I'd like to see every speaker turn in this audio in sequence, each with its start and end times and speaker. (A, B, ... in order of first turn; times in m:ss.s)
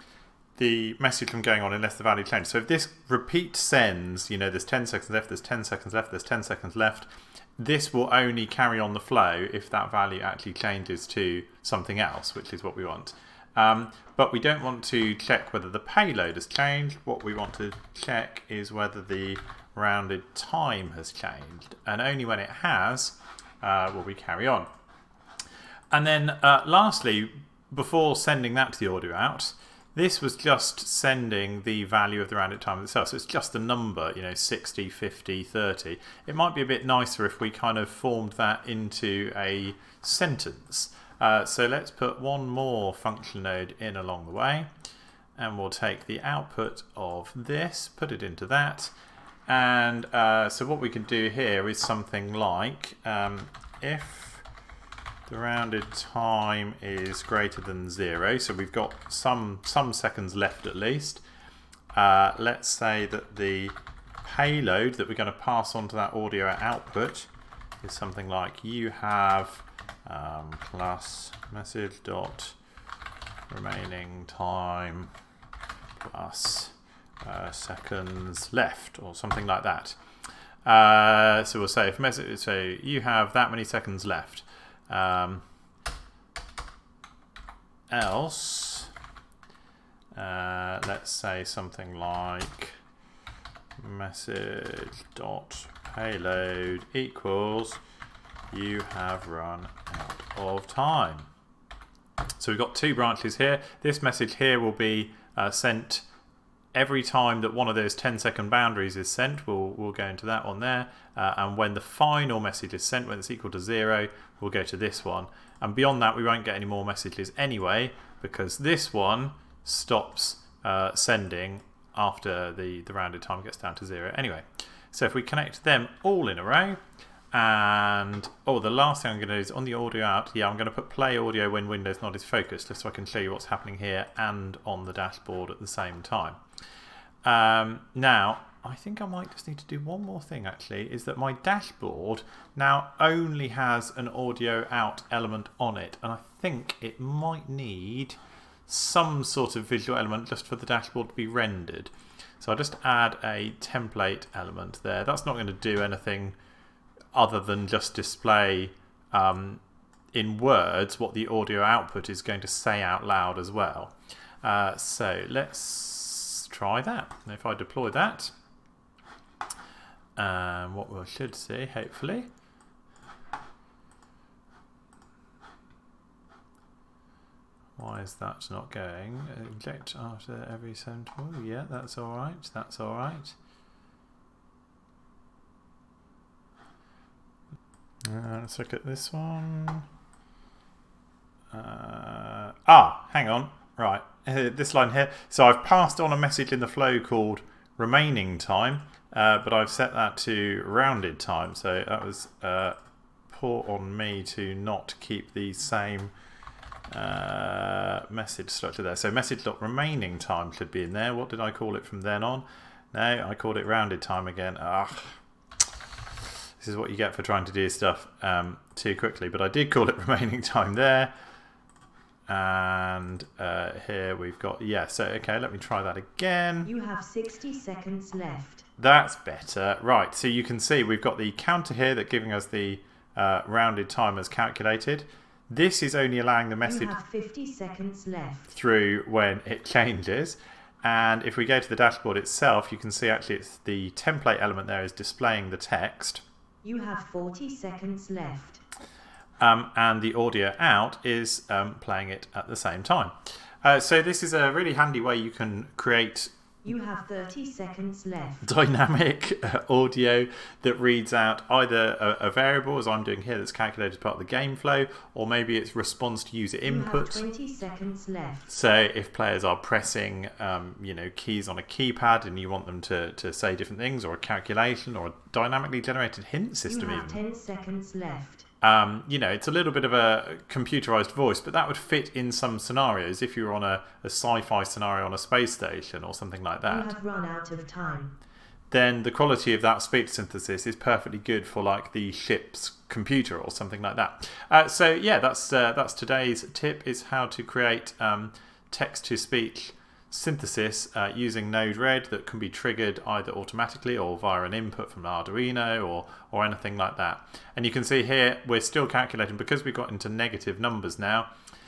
0:00.6-0:24.7 A
0:25.9-0:44.7 A
0:45.4-0:48.9 A
0:49.5-0:54.4 A
0:55.3-1:01.2 A
1:01.9-1:07.3 A
1:07.8-1:12.6 A
1:13.5-1:15.1 A
1:16.0-1:20.0 A
1:20.6-1:25.4 A
1:27.9-1:28.9 A
1:30.1-1:32.8 A
1:33.8-1:37.8 A
1:38.5-1:41.3 A
1:42.4-1:46.0 A
1:46.7-2:06.8 A
2:07.3-2:16.4 A
2:17.2-2:36.4 A
2:37.1-2:39.6 A
2:40.1-2:48.3 A
2:50.2-2:52.3 A
2:57.8-3:03.3 A
3:08.0-3:09.8 A
3:11.5-3:22.8 A
3:23.3-3:26.1 A
3:26.9-3:35.2 A
3:36.6-3:41.1 A
3:42.3-3:46.7 A
3:46.6-3:48.6 B
3:48.8-3:56.9 A
3:56.6-3:58.5 B
3:58.5-4:06.2 A
4:06.6-4:08.6 B
4:09.4-4:16.3 A
4:16.6-4:18.4 B
4:18.4-4:27.2 A
4:26.6-4:28.5 B
4:28.5-4:37.2 A
4:36.7-4:38.4 B
4:38.6-4:46.9 A
4:46.7-4:48.2 B
4:48.7-5:11.3 A